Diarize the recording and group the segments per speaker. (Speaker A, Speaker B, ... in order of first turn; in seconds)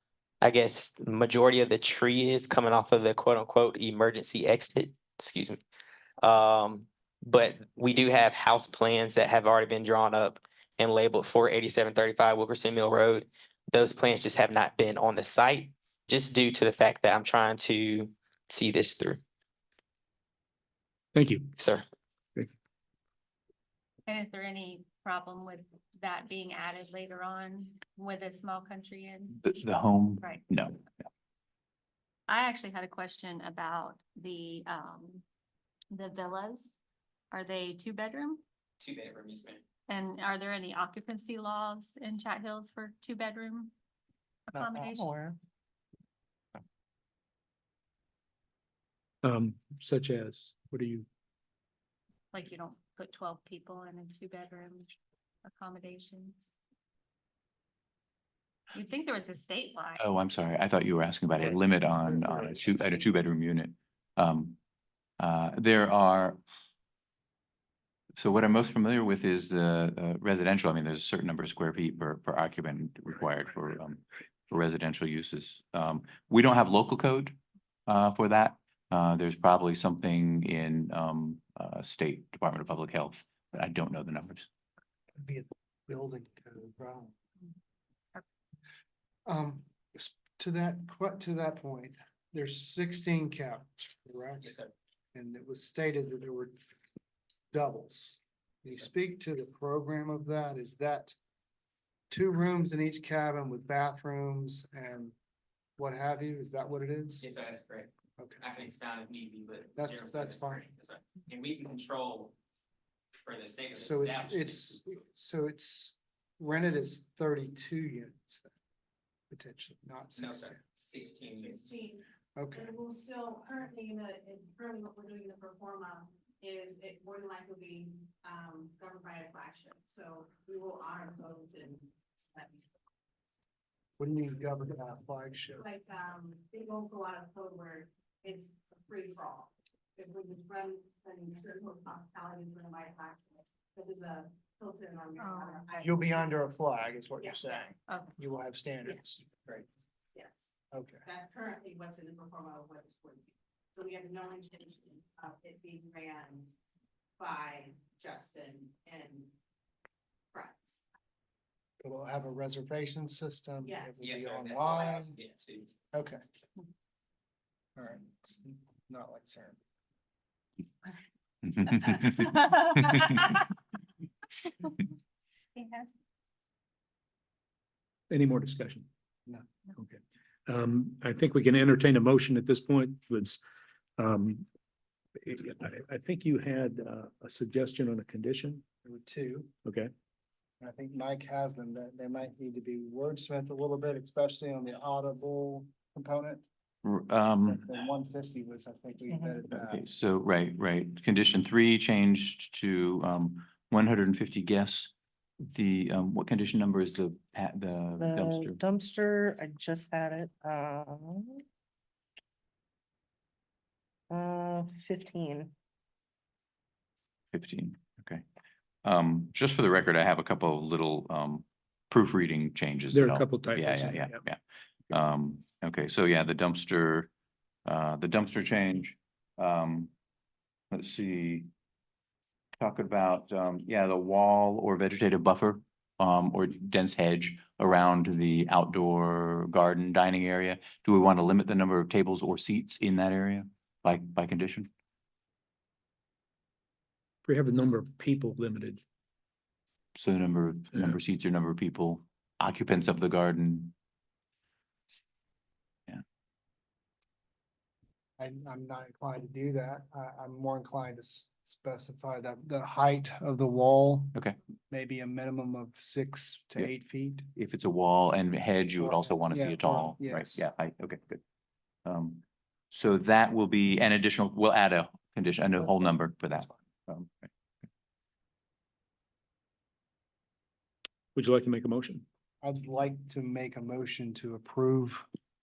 Speaker A: 0.4-5.6, 6.2-19.2, 21.6-21.9, 38.8-39.6, 107.2-107.9, 108.4-112.3, 113.2-114.8, 120.2-121.7, 164.0-165.7
Speaker B: 21.1-21.5, 49.2-51.1, 178.1-178.9, 179.8-183.4, 184.0-184.4, 185.2-188.6, 189.7-189.9, 222.9-224.2, 247.2-248.8, 250.7-251.0, 281.1-282.1
Speaker C: 24.1-29.4, 32.3-35.2, 35.9-36.8, 37.3-38.4, 39.9-43.7, 44.6-45.1, 52.3-54.9, 55.5-56.4, 58.8-60.0
Speaker D: 29.4-30.8, 60.0-64.6, 65.2-66.4, 68.2-84.5, 171.4-173.2, 196.8-197.7, 199.5-208.6, 217.3-218.2, 218.8-227.1, 227.7-229.9, 230.7-231.5, 232.6-244.7, 249.9-253.8, 267.4-271.2, 271.9-277.3
Speaker E: 44.5-45.4, 199.1-199.4, 208.0-211.4, 214.1-215.5
Speaker F: 85.2-87.2, 89.3-94.6, 95.1-96.8, 97.5-101.2, 102.1-105.2, 105.8-107.3, 108.2-108.5, 109.8-110.7, 113.7-118.5, 119.3-120.6, 122.4-122.7, 134.0-135.7, 145.8-149.7, 150.7-151.1, 161.8-165.2, 165.9-166.2, 167.8-169.6, 188.8-189.5, 190.6-196.5, 197.5-199.8, 258.2-264.2, 264.7-267.3, 268.8-270.4, 275.6-276.5, 282.4-285.1
Speaker G: 121.2-132.6, 135.6-146.4, 147.2-147.7, 150.1-156.5, 157.2-159.3, 160.3-160.8, 163.7-164.0